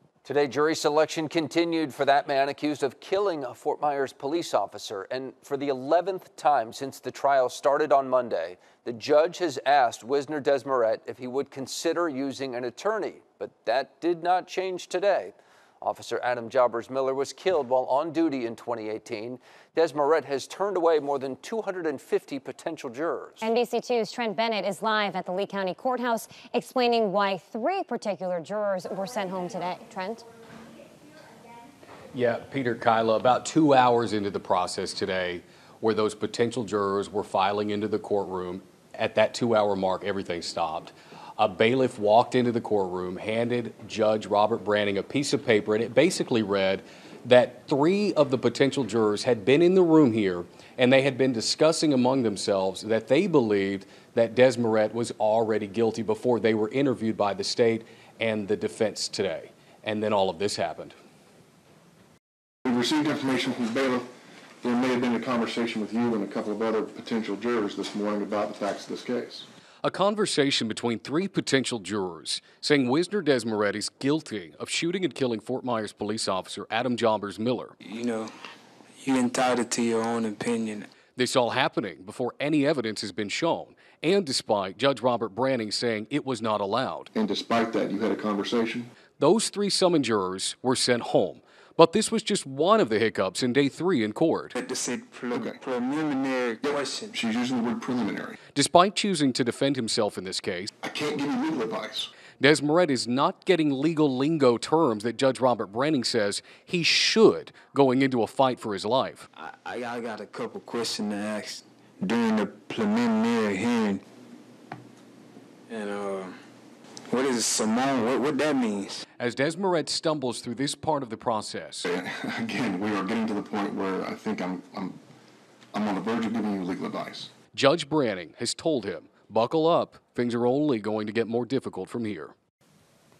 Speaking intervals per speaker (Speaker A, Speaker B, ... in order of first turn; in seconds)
Speaker A: 0.2-23.5
Speaker B: 23.4-30.2
Speaker C: 32.1-60.9, 69.8-77.8, 81.1-87.1, 89.2-94.5, 98.5-100.7, 102.4-109.3, 119.2-121.9, 127.5-132.3
Speaker D: 62.7-64.0, 64.6-69.5, 87.1-88.9, 95.3-95.6, 96.7-98.4, 100.8-102.1, 121.9-125.0, 125.7-127.3
Speaker E: 77.8-78.3, 79.0-80.9, 94.5-97.2, 109.4-114.0, 115.7-116.4, 117.1-119.0